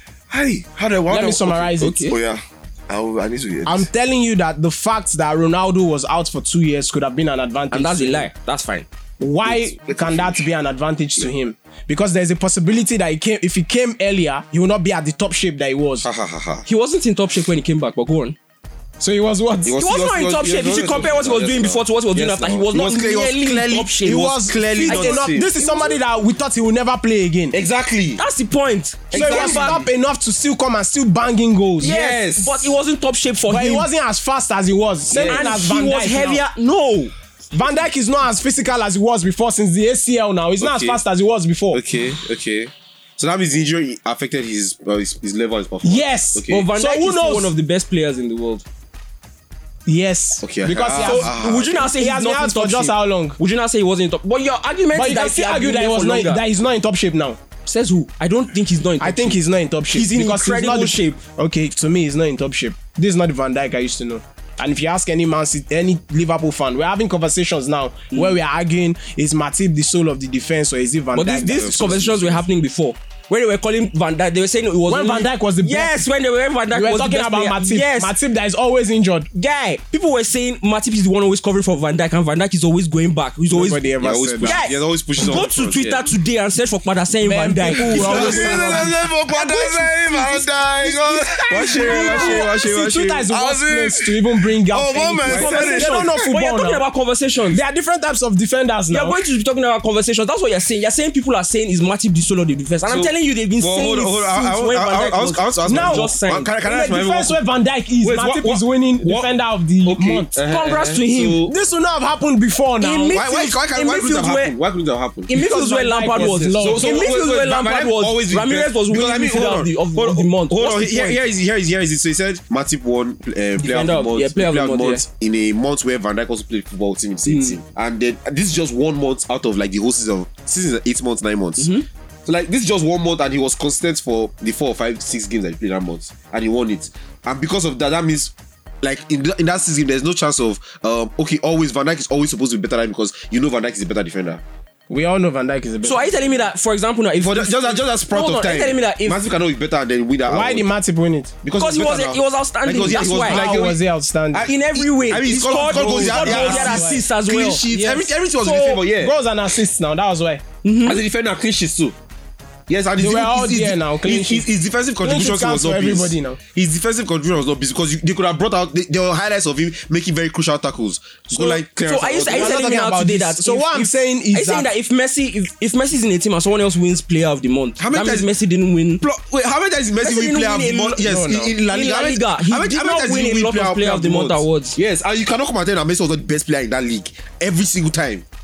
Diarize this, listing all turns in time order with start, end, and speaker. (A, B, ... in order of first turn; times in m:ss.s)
0:00.3-0:03.9 A
0:01.1-0:02.1 B
0:01.8-0:02.2 C
0:03.6-0:08.3 B
0:07.7-0:08.8 C
0:09.2-0:16.1 B
0:09.5-0:10.4 A
0:16.0-0:16.6 D
0:16.6-0:18.4 C
0:19.0-0:19.8 B
0:19.6-0:25.8 D
0:19.8-0:25.9 C
0:24.1-0:27.6 B
0:27.5-0:28.2 D
0:28.2-0:29.8 C
0:29.1-0:29.9 D
0:29.1-0:32.0 B
0:31.8-0:33.9 C
0:31.8-0:32.7 D
0:33.5-0:36.4 B
0:35.1-0:35.6 D
0:35.3-0:37.1 C
0:37.5-0:41.8 B
0:40.6-0:41.0 D
0:41.7-0:46.7 D
0:45.8-0:47.5 B
0:46.5-0:48.6 C
0:49.8-0:53.4 B
0:50.4-0:51.9 D
0:50.9-0:56.4 C
0:54.9-0:57.4 B
0:57.6-0:59.4 C
0:59.0-1:12.1 B
0:59.9-1:01.2 C
1:08.1-1:08.4 C
1:11.1-1:18.1 C
1:11.2-1:12.4 D
1:14.9-1:16.0 B
1:16.7-1:19.3 B
1:19.3-1:23.8 C
1:23.5-1:24.6 B
1:24.0-1:26.1 D
1:24.4-1:28.8 C
1:27.2-1:28.9 B
1:27.8-1:32.5 A
1:27.8-1:29.6 D
1:29.3-1:30.4 C
1:30.8-1:33.3 D
1:31.7-1:36.8 B
1:32.0-1:32.3 C
1:33.3-1:36.2 A
1:35.3-1:37.6 C
1:37.5-1:39.2 B
1:38.9-1:46.5 C
1:42.8-1:47.4 D
1:45.7-1:46.1 B
1:46.6-1:50.3 B
1:48.0-1:49.3 D
1:49.8-1:51.5 D
1:50.4-1:51.4 C
1:51.4-1:53.2 B
1:52.8-1:54.5 C
1:53.1-1:55.4 D
1:55.3-2:01.2 C
1:55.3-1:57.1 B
1:56.1-2:11.7 D
2:03.6-2:05.0 C
2:07.2-2:07.6 C
2:11.6-2:11.8 C
2:12.2-2:24.4 D
2:24.9-2:26.2 B
2:25.8-2:29.2 C
2:27.2-2:30.7 D
2:30.3-2:31.3 B
2:31.4-2:39.2 D
2:31.5-2:33.4 C
2:32.9-2:34.5 B
2:34.4-2:37.6 C
2:35.5-2:37.1 B
2:37.7-2:38.1 B
2:38.4-2:38.8 C
2:38.9-2:40.4 B
2:40.6-2:41.0 C
2:40.8-2:42.0 D
2:42.7-2:52.7 D
2:43.0-2:44.5 B
2:45.0-2:46.4 B
2:51.4-2:59.0 C
2:52.2-2:54.7 B
2:57.8-2:58.3 D
2:59.0-3:08.2 D
3:00.0-3:01.1 C
3:01.0-3:01.5 B
3:01.6-3:04.8 C